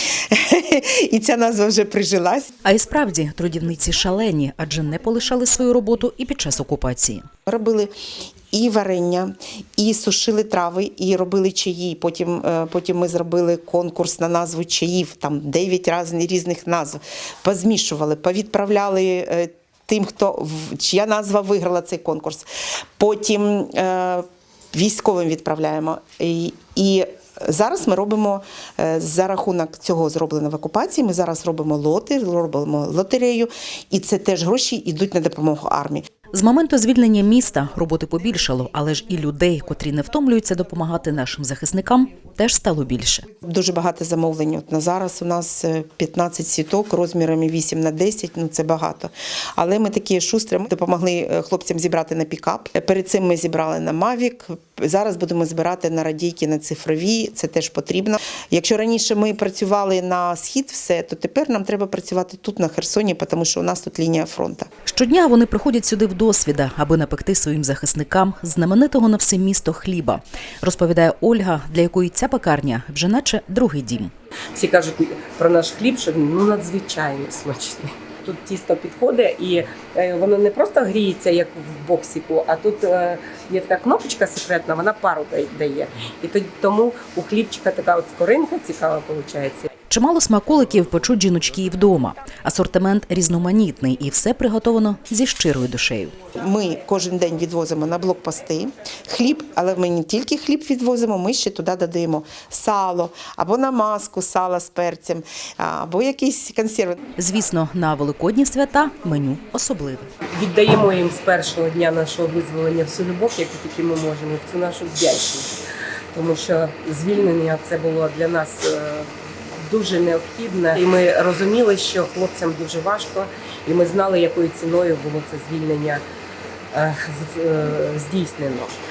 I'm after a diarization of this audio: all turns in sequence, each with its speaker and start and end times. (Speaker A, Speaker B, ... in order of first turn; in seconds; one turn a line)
Speaker A: 0.3-2.5
Speaker B: 2.6-7.2
Speaker A: 7.5-7.9
Speaker A: 8.5-22.4
Speaker A: 23.0-36.0
Speaker B: 36.3-43.2
Speaker A: 43.5-64.7
Speaker B: 64.8-74.1
Speaker C: 74.5-89.7
Speaker B: 89.9-96.1
Speaker A: 96.4-107.0
Speaker B: 107.2-110.0
Speaker C: 110.3-115.5
Speaker C: 116.1-126.0
Speaker C: 126.7-128.8